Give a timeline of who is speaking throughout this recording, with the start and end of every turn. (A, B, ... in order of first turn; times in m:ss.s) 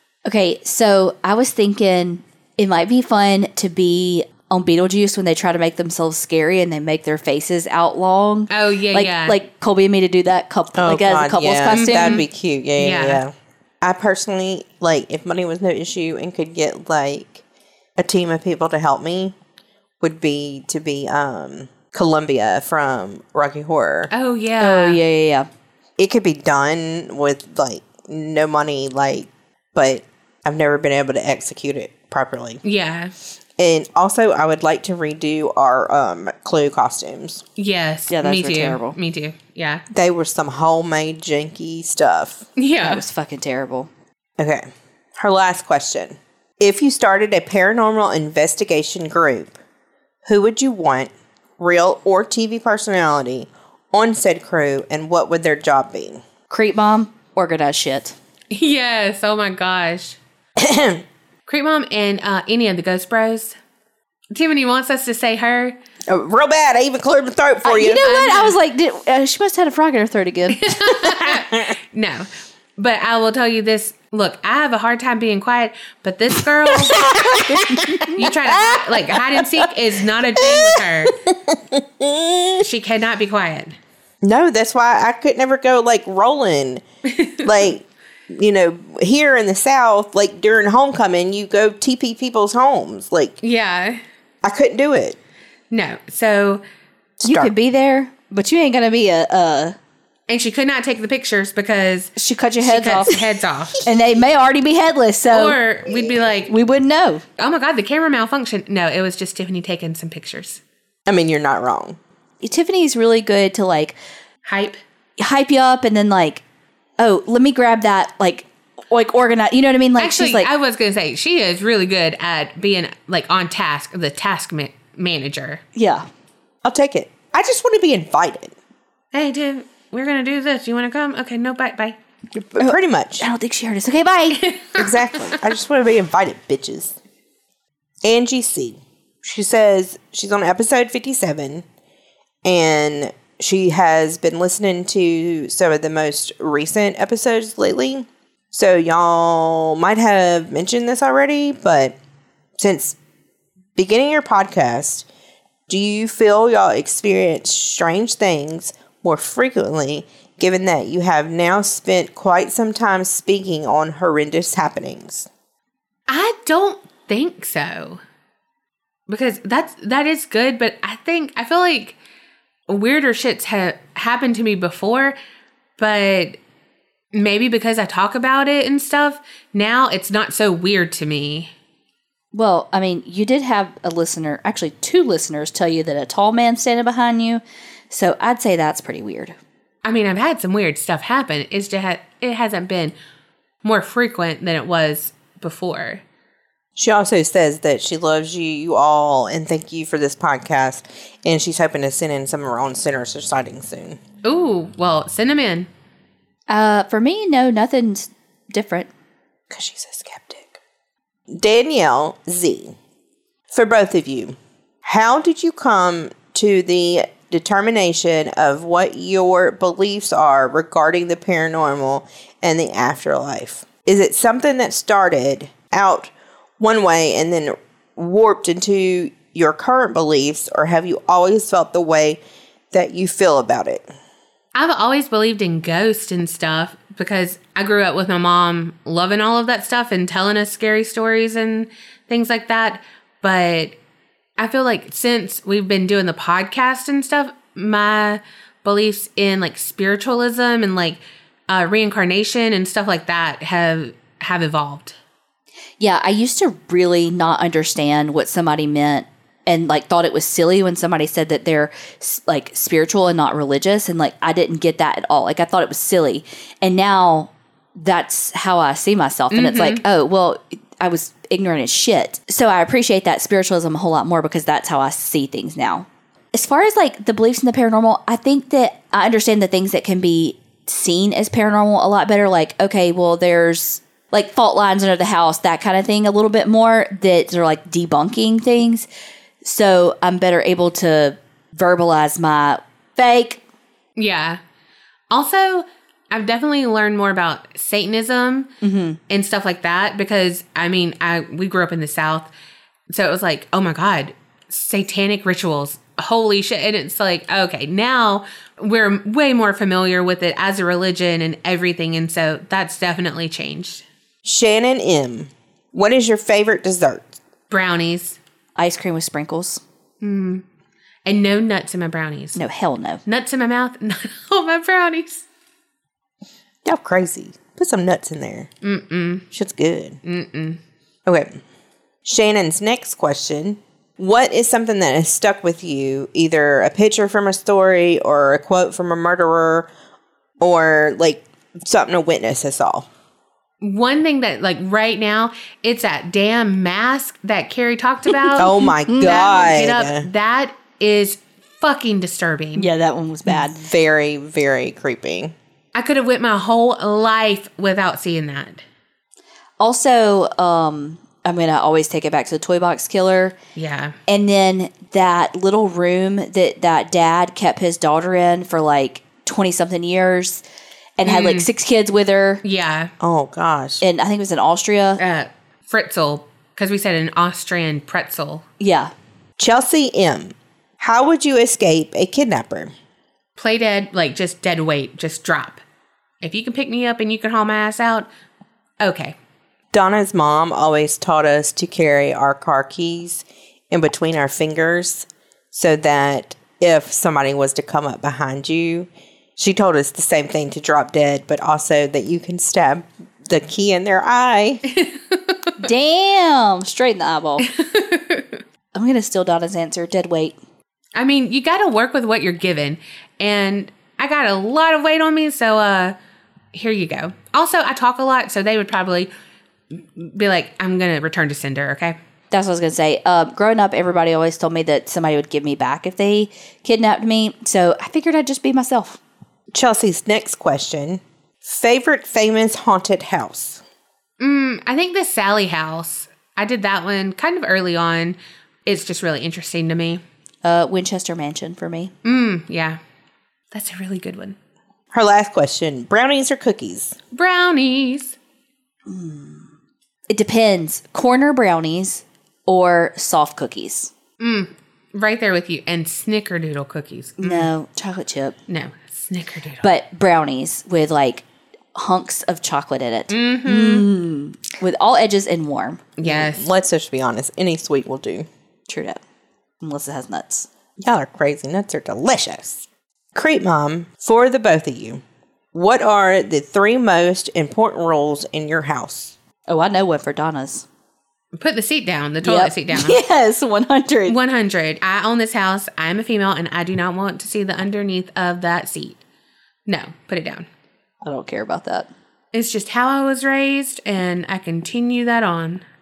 0:00.2-0:12.2 A
0:08.5-0:09.4 B
0:10.7-0:17.4 C
0:11.7-0:12.2 B
0:12.8-0:13.2 B
0:18.0-0:19.3 C
0:20.0-0:24.1 C
0:24.1-0:25.0 B
0:24.6-0:25.5 A
0:26.0-0:32.6 C
0:32.6-0:33.1 B
0:33.6-0:37.4 C
0:37.6-0:39.8 B
0:38.1-0:39.0 A
0:39.9-0:42.4 C
0:42.6-0:43.0 B
0:42.8-0:43.9 A
0:44.4-0:44.6 C
0:45.2-0:49.5 C
0:50.2-0:56.2 C
0:56.5-0:58.1 A
0:58.5-1:00.2 B
1:00.6-1:01.0 C
1:01.5-1:03.5 B
1:04.3-1:05.8 B
1:06.1-1:08.1 C
1:07.6-1:10.8 A
1:07.9-1:08.5 B
1:10.5-1:17.1 B
1:11.2-1:11.7 C
1:16.6-1:19.7 C
1:17.2-1:18.1 A
1:18.1-1:21.1 B
1:20.4-1:22.7 C
1:22.6-1:23.8 B
1:24.2-1:26.8 C
1:27.1-1:27.4 B
1:27.4-1:33.4 C
1:33.4-1:34.0 B
1:34.4-1:35.2 C
1:35.7-1:36.6 B
1:37.2-1:37.5 C
1:37.2-1:39.8 A
1:40.3-1:43.8 B
1:42.2-1:43.2 A
1:43.8-1:45.6 A
1:45.3-1:46.5 B
1:46.5-1:47.2 A
1:47.4-1:50.6 B
1:51.1-1:52.0 C
1:52.4-1:54.0 A
1:54.4-1:54.8 B
1:55.2-1:56.4 A
1:57.0-2:00.5 A
2:00.0-2:05.6 B
2:05.8-2:06.0 A
2:06.6-2:08.5 C
2:09.1-2:12.0 B
2:12.3-2:13.3 C
2:12.6-2:14.5 A
2:14.4-2:15.3 B
2:14.7-2:16.9 C
2:18.0-2:21.6 C
2:22.4-2:32.0 C
2:32.6-2:33.0 C
2:33.8-2:35.1 C
2:35.7-2:45.3 C
2:46.1-2:48.0 B
2:49.1-2:52.0 B
2:52.7-2:55.2 B
2:55.8-2:56.4 B
2:57.1-3:01.5 B
3:02.3-3:09.3 A
3:09.8-3:12.9 B
3:13.6-3:16.0 B
3:16.8-3:24.0 C
3:24.2-3:25.7 B
3:26.5-3:28.9 A
3:29.5-3:30.6 C
3:31.3-3:32.8 C
3:33.5-3:52.2 C
3:52.7-3:53.9 C
3:54.5-4:03.7 B
4:04.4-4:15.0 B
4:15.8-4:48.9 A
4:29.3-4:29.8 B
4:49.4-4:53.4 A
4:54.0-4:54.4 B
4:55.1-4:58.5 B
4:58.6-4:59.0 A
4:59.1-5:02.3 B
5:02.9-5:13.8 B
5:14.2-5:17.2 C
5:17.5-5:18.2 B
5:18.6-5:19.6 A
5:20.0-5:20.4 B
5:21.0-5:22.4 B
5:22.4-5:23.0 A
5:23.0-5:25.2 B
5:26.6-5:28.5 C
5:28.6-5:29.2 B
5:29.3-5:30.0 C
5:30.0-5:30.6 B
5:31.1-5:31.4 C
5:32.0-5:39.7 C
5:40.4-5:42.9 C
5:43.6-5:52.7 B
5:48.4-5:50.1 C
5:52.5-5:53.6 A
5:53.3-5:55.3 C
5:55.7-5:58.6 B
5:59.6-6:03.3 A
6:03.6-6:04.0 B
6:04.1-6:10.4 A
6:11.0-6:12.4 A
6:11.0-6:11.5 B
6:12.4-6:12.9 B
6:13.0-6:13.8 C
6:13.8-6:15.0 A
6:15.0-6:18.4 B
6:18.6-6:18.9 A
6:19.4-6:22.7 C
6:23.4-6:25.6 B
6:26.2-6:28.1 B
6:28.8-6:29.1 B
6:29.7-6:44.6 C
6:44.7-6:45.5 B
6:45.6-6:47.5 A
6:47.4-6:48.4 B
6:48.7-6:50.4 A
6:51.0-6:56.0 B
6:56.5-6:59.1 B
6:59.7-7:02.0 B
7:02.3-7:09.0 A
7:09.5-7:13.6 C
7:14.2-7:20.0 B
7:20.4-7:21.9 A
7:22.0-7:22.8 B
7:23.5-7:24.4 B
7:24.9-7:27.0 C
7:27.1-7:28.2 B
7:28.9-7:29.5 A
7:30.1-7:33.9 A
7:34.2-7:37.5 B
7:37.2-7:38.4 A
7:38.5-7:39.6 B
7:39.6-7:45.8 A
7:43.1-7:43.9 B
7:46.0-7:46.5 B
7:46.0-7:48.3 C
7:48.7-7:49.0 A
7:49.6-7:50.5 A
7:50.8-7:55.0 C
7:55.5-7:59.1 C
7:59.5-8:00.6 A
8:01.4-8:03.0 B
8:02.2-8:04.2 A
8:04.1-8:09.0 B
8:09.7-8:10.4 B
8:11.0-8:11.9 A
8:12.3-8:15.6 B